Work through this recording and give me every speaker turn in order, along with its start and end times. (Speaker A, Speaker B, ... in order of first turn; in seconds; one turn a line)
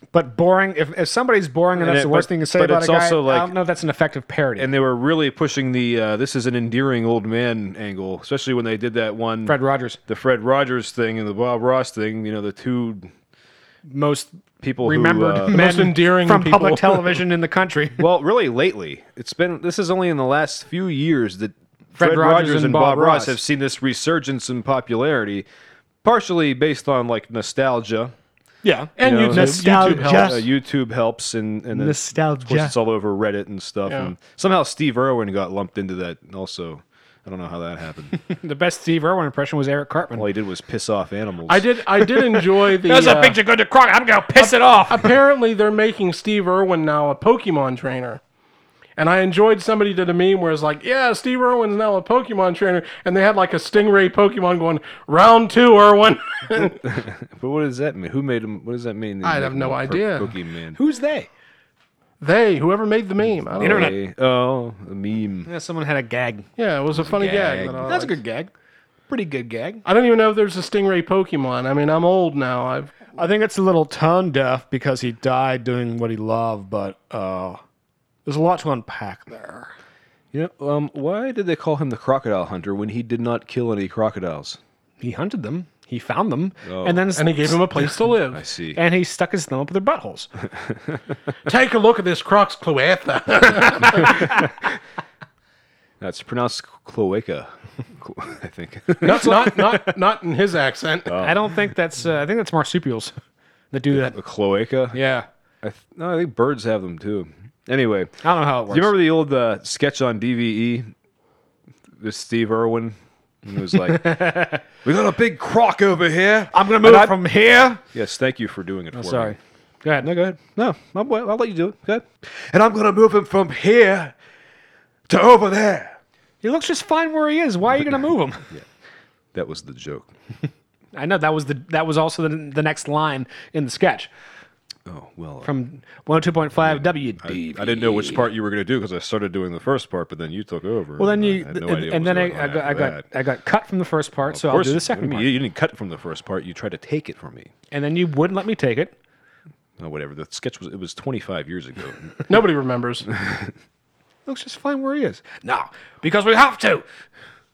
Speaker A: 0.1-4.7
Speaker B: 1.8-3.5
Speaker B: 4.6-13.1
Speaker A: 9.4-10.0
Speaker A: 13.9-18.0
Speaker B: 14.6-15.6
Speaker C: 15.5-17.2
Speaker B: 18.0-25.4
Speaker A: 22.0-23.4
Speaker B: 26.0-28.1
Speaker A: 28.6-30.4
Speaker C: 29.0-30.4
Speaker B: 29.0-38.2
Speaker A: 31.7-32.7
Speaker A: 38.1-40.3
Speaker B: 40.1-41.7
Speaker C: 41.5-43.4
Speaker A: 42.3-45.1
Speaker C: 44.4-48.2
Speaker C: 49.0-56.8
Speaker B: 56.6-60.8
Speaker C: 59.2-60.3
Speaker A: 60.8-61.3
Speaker C: 62.2-63.9
Speaker B: 63.5-65.5
Speaker A: 63.6-64.0
Speaker A: 65.5-66.5
Speaker C: 66.6-68.2
Speaker B: 66.9-68.1
Speaker A: 67.8-68.5
Speaker A: 69.1-69.8
Speaker C: 69.8-72.9
Speaker A: 73.2-77.6
Speaker A: 78.2-79.7
Speaker B: 80.3-84.6
Speaker A: 85.0-88.0
Speaker B: 86.6-87.1
Speaker C: 87.2-88.4
Speaker B: 88.3-88.8
Speaker A: 88.8-90.3
Speaker C: 91.5-94.2
Speaker B: 96.0-99.6
Speaker C: 99.0-101.1
Speaker A: 99.1-99.6
Speaker B: 101.0-101.5
Speaker A: 101.2-103.1
Speaker A: 103.7-104.2
Speaker B: 103.9-105.0
Speaker A: 104.9-105.2
Speaker B: 105.6-108.1
Speaker A: 108.2-109.0
Speaker B: 108.7-110.9
Speaker B: 112.0-117.2
Speaker A: 113.9-114.6
Speaker A: 116.5-117.8
Speaker B: 117.9-119.4
Speaker A: 118.9-120.1
Speaker B: 120.0-124.1
Speaker B: 125.1-126.0
Speaker A: 126.4-128.5
Speaker B: 129.3-130.1
Speaker A: 130.9-134.1
Speaker B: 134.8-135.6
Speaker A: 135.4-138.3
Speaker B: 136.6-143.1
Speaker A: 141.0-145.3
Speaker B: 144.3-147.5
Speaker A: 147.7-148.9
Speaker B: 149.8-152.2
Speaker C: 152.3-153.1
Speaker B: 153.2-153.5
Speaker A: 154.3-156.8